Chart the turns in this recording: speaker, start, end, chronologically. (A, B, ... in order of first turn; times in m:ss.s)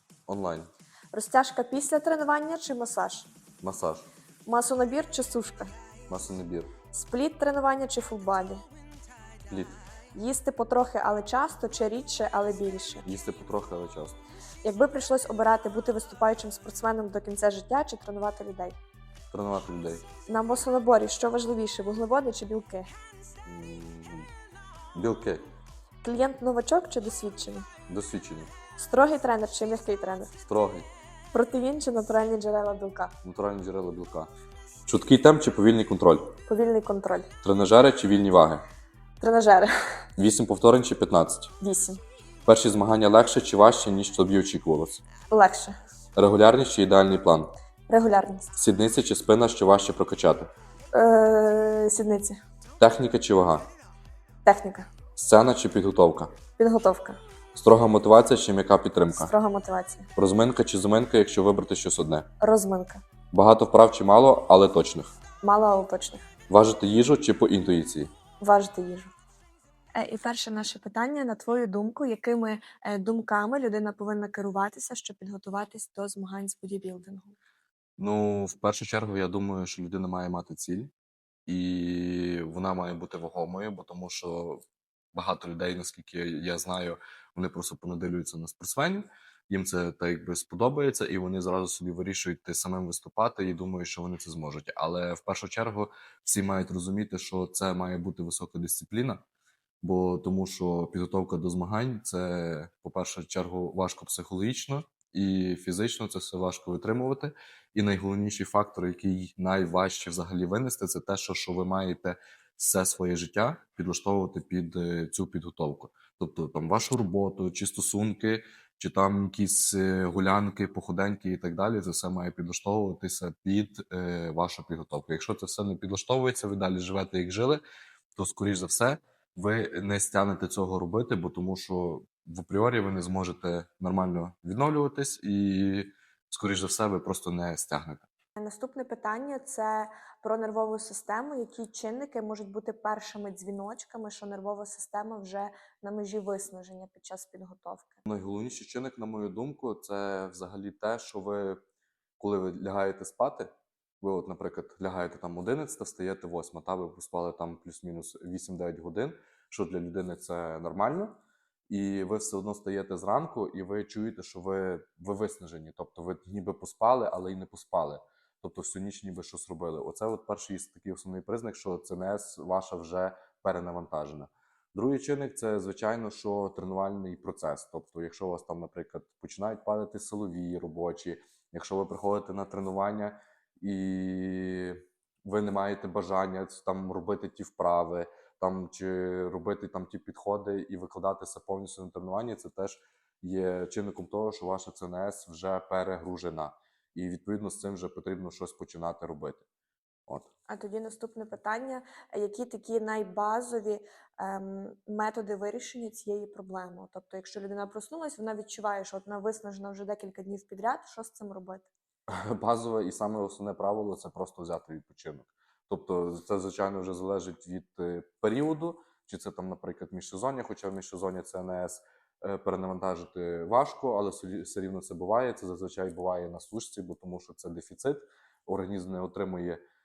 0:00.3-0:00.7 A
0:01.1-0:03.3 B
0:03.6-0:04.1 A
0:04.5-0:05.7 B
0:06.1-0:06.7 A
0:06.9-0:08.6 B
0:09.5-0:09.8 A
0:10.1-0:13.1 B
0:13.0-0:14.2 A
0:14.6-0:18.8 B
0:19.3-0:20.0 A
0:20.3-0:22.9 B
0:23.4-0:24.3 A
0:24.9-0:25.4 A
0:26.0-0:27.7 B
0:27.9-0:28.5 A
0:28.8-0:30.3 B
0:30.4-0:30.9 A
0:31.3-0:33.1 B
0:33.2-0:34.3 A
0:34.9-0:36.3 A
0:36.5-0:37.3 B
0:37.4-0:38.6 A
0:39.2-0:40.0 B
0:40.2-0:41.5 A
0:41.6-0:42.0 B
0:42.5-0:45.0 A
0:45.3-0:45.8 B
0:46.2-0:47.5 A
0:47.9-0:48.5 B
0:48.5-0:50.5 A
0:50.9-0:52.4 B
0:52.8-0:53.7 A
0:54.4-0:54.9 B
0:55.2-0:56.3 A
0:56.6-0:57.2 B
0:57.5-0:59.3 A
0:59.1-1:00.1 B
1:00.2-1:02.3 A
1:02.4-1:03.0 B
1:03.3-1:05.1 A
1:05.4-1:06.3 B
1:06.5-1:08.1 A
1:08.4-1:09.1 B
1:09.9-1:17.4 B
1:18.0-1:20.9 A
1:21.5-1:24.6 A
1:25.1-1:39.2 A
1:39.8-2:07.6 A
2:08.2-2:18.0 A
2:18.4-2:28.0 B
2:28.0-2:31.6 A
2:32.2-2:41.2 A
2:41.7-3:19.4 A
3:20.5-3:31.7 B
3:32.1-3:49.6 A